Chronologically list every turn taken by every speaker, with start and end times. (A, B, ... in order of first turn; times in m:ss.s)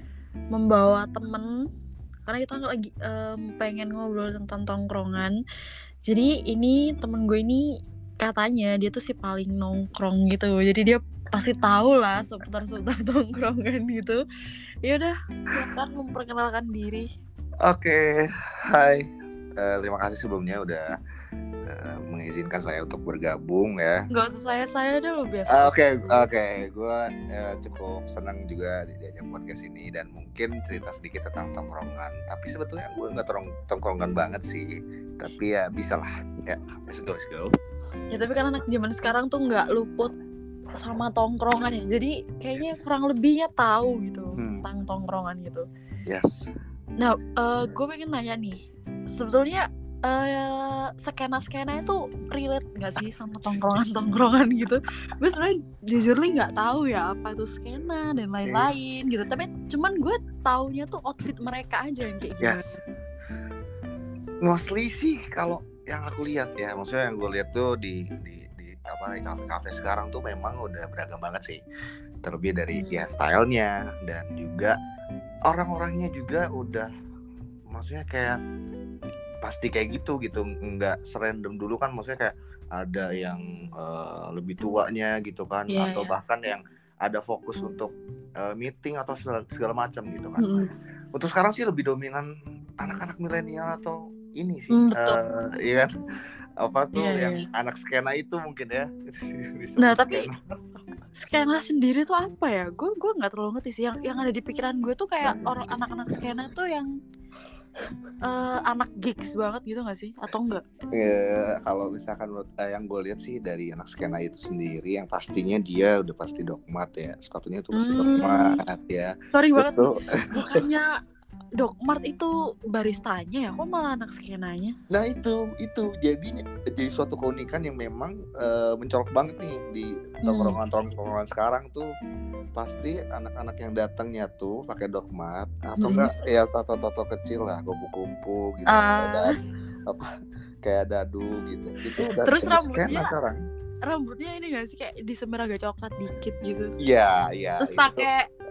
0:00.5-0:01.5 A
0:02.2-0:05.4 A
0:06.1-0:07.7 A
0:08.2-0:14.2 A
0:14.8-0:17.1 A
0:17.6-0:20.9 B
0:21.7-0:24.0 B
0:24.1-0:26.3 A
0:25.5-0:34.7 B
0:35.2-0:37.5 B
0:38.1-0:40.1 A
0:40.8-0:45.7 A
0:44.4-0:44.6 B
0:46.1-0:46.5 B
0:47.0-0:48.6 A
0:49.1-1:02.7 A
1:02.4-1:02.8 B
1:04.4-1:11.6 B
1:12.2-1:14.8 B
1:12.7-1:13.1 A
1:15.5-1:16.9 B
1:17.7-1:18.4 B
1:19.4-1:32.3 B
1:25.7-1:26.1 A
1:30.4-1:30.7 A
1:32.8-1:35.9 B
1:34.7-1:35.2 A
1:36.6-1:40.4 B
1:36.9-1:37.5 A
1:39.8-1:40.3 A
1:41.1-1:46.9 A
1:45.2-1:46.2 B
1:48.2-1:50.6 A
1:50.9-2:00.6 B
1:57.7-1:58.6 A
1:59.3-2:00.9 A
2:01.6-2:04.8 A
2:04.9-2:11.9 B
2:10.2-2:10.6 A
2:12.6-2:19.3 B
2:15.8-2:16.1 A
2:18.7-2:19.3 A
2:20.6-2:23.4 B
2:22.0-2:23.1 A
2:23.9-2:26.7 A
2:26.8-2:28.1 B
2:27.6-2:28.3 A